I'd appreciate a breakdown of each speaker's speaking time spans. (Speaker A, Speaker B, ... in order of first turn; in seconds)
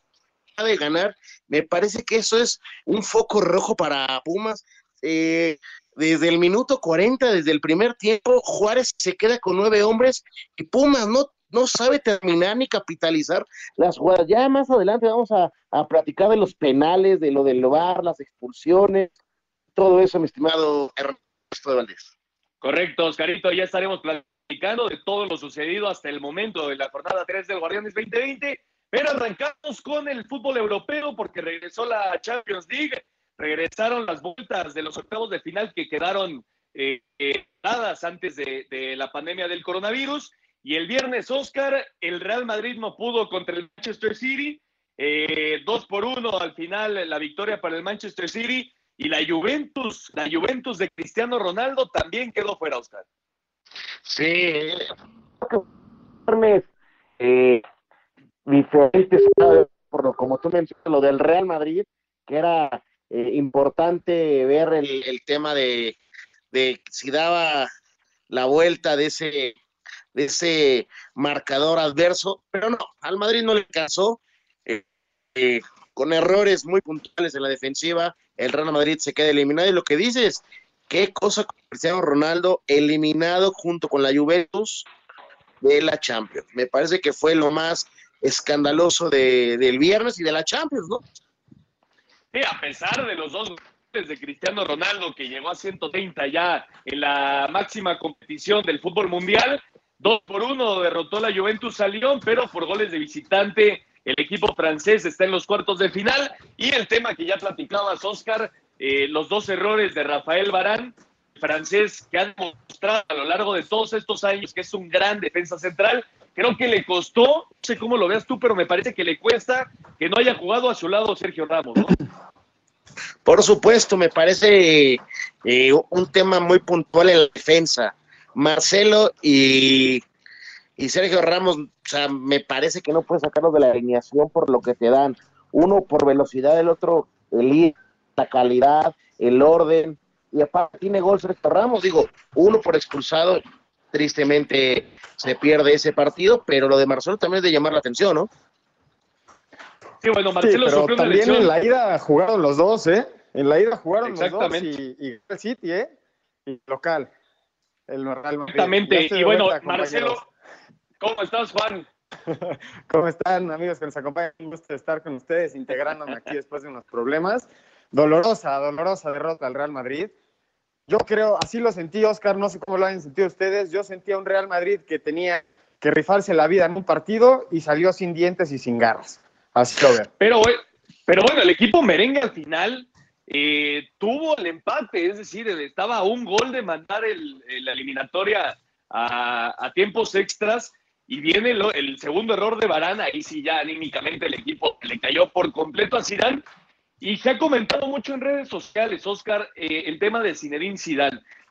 Speaker A: 0.6-19.1, 19.8-22.1, 54.0-54.9, 56.3-56.7, 57.2-57.6, 58.5-66.0, 66.5-67.7, 68.3-69.5, 70.1-74.8, 75.3-84.9, 85.6-91.0, 123.2-130.0, 130.8-143.4, 143.9-148.3
Speaker B: 22.6-53.0, 92.3-121.9, 150.0-151.5, 154.0-154.7, 158.5-160.2, 161.0-161.8, 180.2-196.4, 197.0-201.2
Speaker C: 150.4-155.9, 156.4-157.1, 157.9-160.2, 162.3-170.1, 170.9-180.1